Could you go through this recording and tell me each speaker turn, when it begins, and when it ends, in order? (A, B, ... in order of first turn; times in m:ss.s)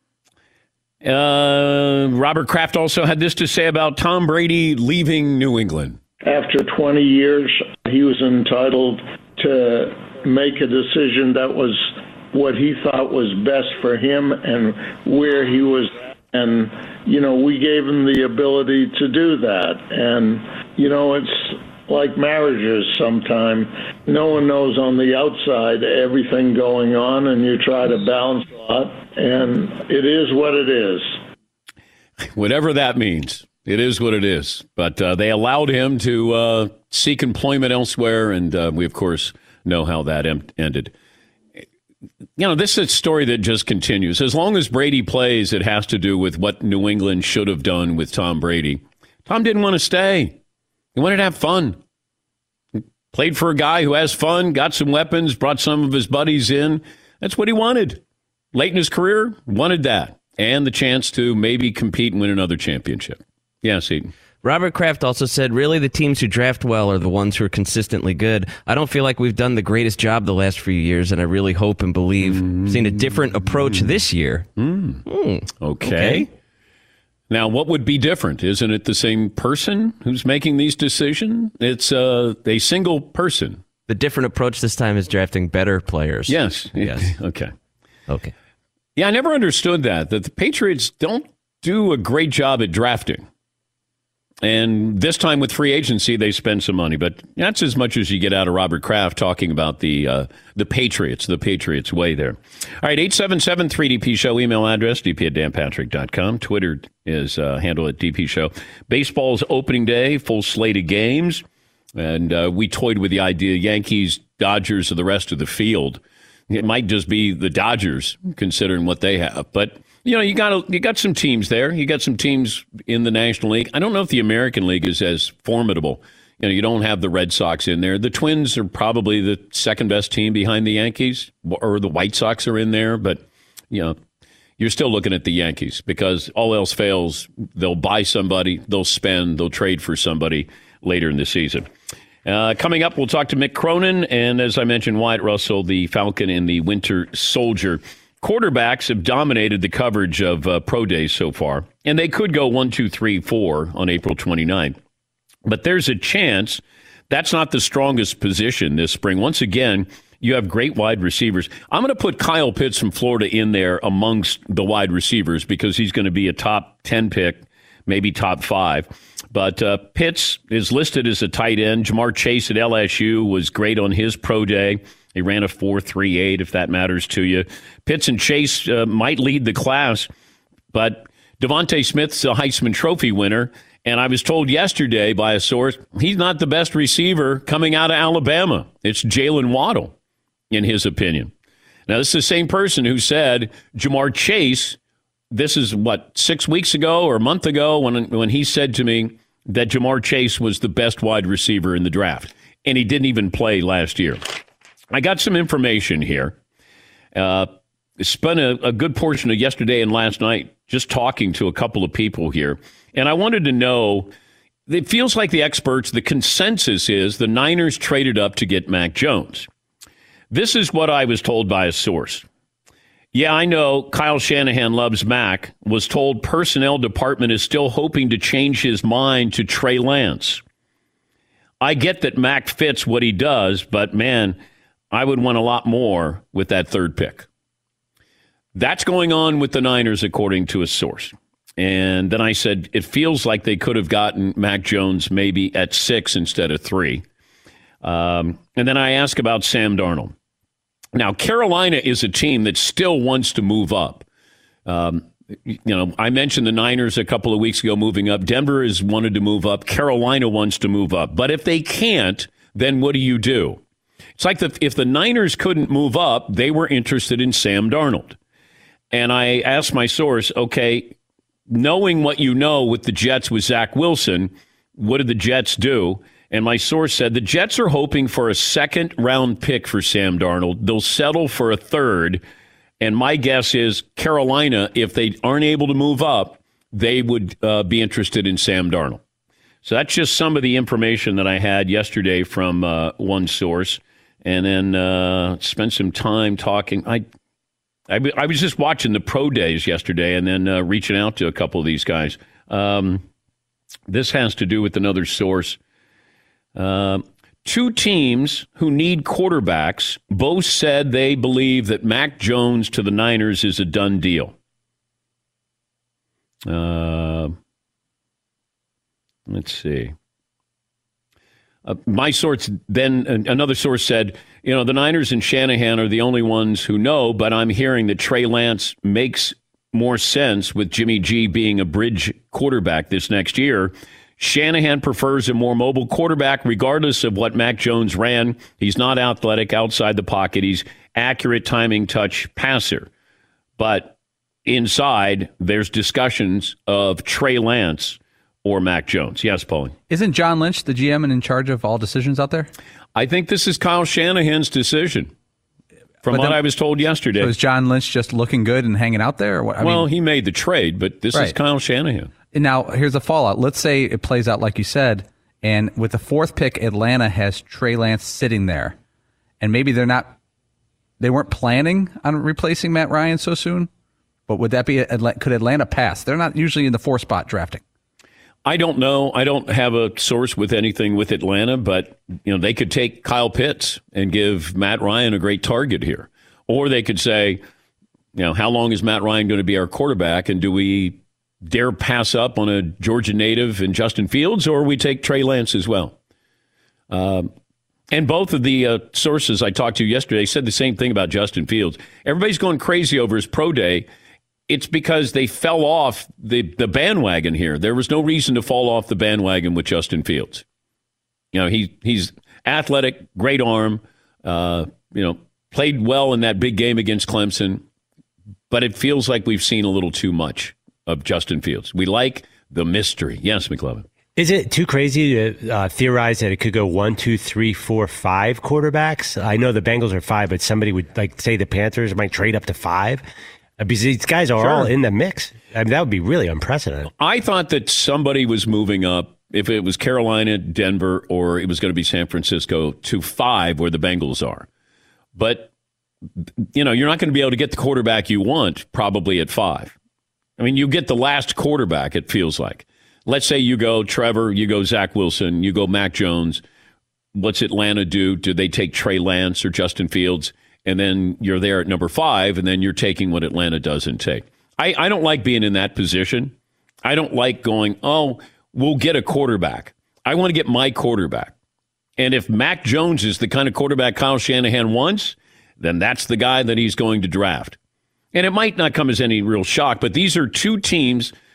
0:01.0-0:06.0 A
0:06.2-0:31.2 B
0:32.3-0:40.9 A
0:42.4-0:50.4 A
0:50.9-0:51.8 A
0:52.8-0:58.0 A
0:58.5-1:04.1 A
1:04.4-1:14.5 C
1:12.2-1:13.1 A
1:14.6-1:15.0 A
1:15.0-1:16.3 C
1:15.6-1:16.3 A
1:17.3-1:23.6 A
1:23.9-1:27.1 C
1:26.3-1:27.5 A
1:28.1-1:28.3 C
1:29.0-1:33.2 A
1:34.4-1:51.4 A
1:51.9-2:14.0 A
2:14.6-2:21.7 A
2:22.2-2:34.8 A
2:35.4-3:00.1 A
3:00.7-3:09.9 A
3:10.5-3:11.3 A
3:11.9-3:14.8 A
3:15.3-3:24.3 A
3:24.9-3:26.3 A
3:27.1-3:34.1 A
3:34.7-3:39.5 A
3:40.3-3:42.2 A
3:43.1-3:50.4 A
3:51.6-3:54.4 A
3:54.9-3:57.2 A
3:58.5-4:07.0 A
4:07.8-4:10.1 A
4:10.9-4:14.0 A
4:14.6-4:23.6 A
4:24.2-4:28.2 A
4:28.9-4:30.9 A
4:31.5-4:42.2 A
4:42.8-4:49.0 A
4:49.6-4:57.0 A
4:57.9-5:03.0 A
5:03.9-5:05.6 A
5:06.5-5:14.3 A
5:16.4-5:17.3 A
5:19.3-5:19.9 A
5:21.6-5:42.9 A
5:43.6-5:43.9 A
5:44.4-5:49.7 A
5:49.9-5:52.5 D
5:52.9-5:55.1 A
5:56.0-5:57.3 A
5:56.0-5:56.4 D
5:57.1-5:59.9 D
5:59.6-6:02.1 A
6:02.3-6:08.7 D
6:09.4-6:10.1 D
6:11.0-6:13.7 D
6:14.3-6:17.6 D
6:18.4-6:27.4 A
6:28.1-6:35.9 A
6:36.9-6:37.3 A
6:37.9-6:43.9 A
6:44.5-6:50.4 A
6:51.3-6:57.6 A
6:58.5-7:03.8 A
7:04.2-7:13.0 E
7:13.6-7:16.9 E
7:14.4-7:14.7 A
7:17.0-7:24.5 A
7:25.1-7:25.5 A
7:26.5-7:29.7 A
7:30.4-7:36.4 A
7:37.1-7:51.3 A
7:52.0-7:57.6 A
7:58.1-8:01.1 A